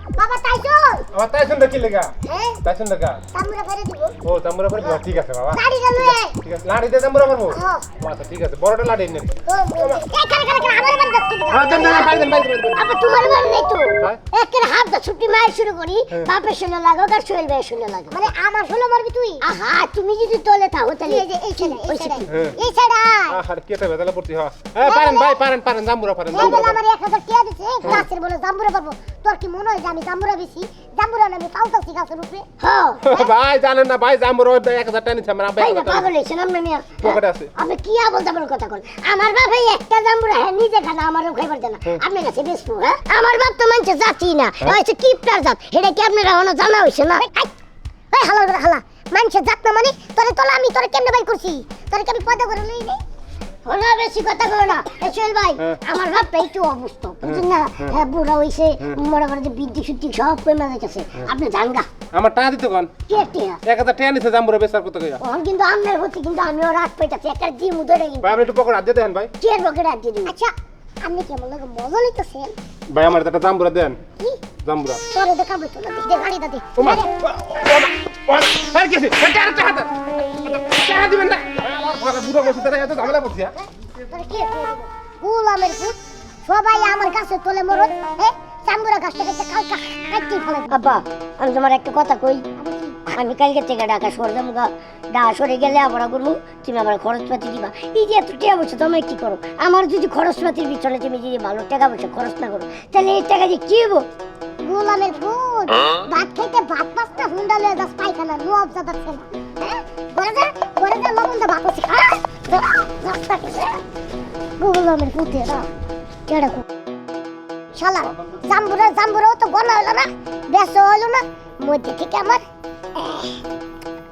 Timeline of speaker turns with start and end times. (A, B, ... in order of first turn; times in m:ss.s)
0:00.2-0:01.1 A
0:01.1-0:03.2 B
0:02.3-0:02.6 A
0:03.3-0:04.2 A
0:04.2-0:10.0 B
0:04.8-0:06.4 A
0:07.5-0:07.9 A
0:09.5-0:12.5 A
0:11.5-0:13.4 B
0:12.8-0:18.2 C
0:18.1-0:19.4 A
0:19.4-0:22.2 C
0:21.1-0:23.4 A
0:22.3-0:22.6 B
0:23.3-0:26.8 B
0:24.8-0:25.4 A
0:26.3-0:32.4 A
0:32.6-0:33.1 C
0:33.0-0:36.1 B
0:35.6-0:47.3 C
0:37.0-0:37.5 B
0:48.1-0:53.0 A
0:53.6-1:01.9 C
0:57.2-0:57.9 B
1:02.1-1:02.9 B
1:03.1-1:03.6 C
1:03.7-1:05.2 B
1:05.2-1:08.3 C
1:08.2-1:09.3 B
1:09.4-1:10.3 C
1:10.3-1:12.5 A
1:12.9-1:14.0 B
1:14.2-1:14.5 A
1:14.5-1:15.0 B
1:15.1-1:17.1 A
1:16.8-1:23.6 B
1:24.1-1:30.8 A
1:30.7-1:32.5 C
1:32.6-1:33.0 A
1:33.1-1:44.1 C
1:44.6-1:53.8 A
1:54.6-1:55.7 A
1:56.3-1:56.6 A
1:57.7-2:02.4 A
2:03.0-2:03.4 A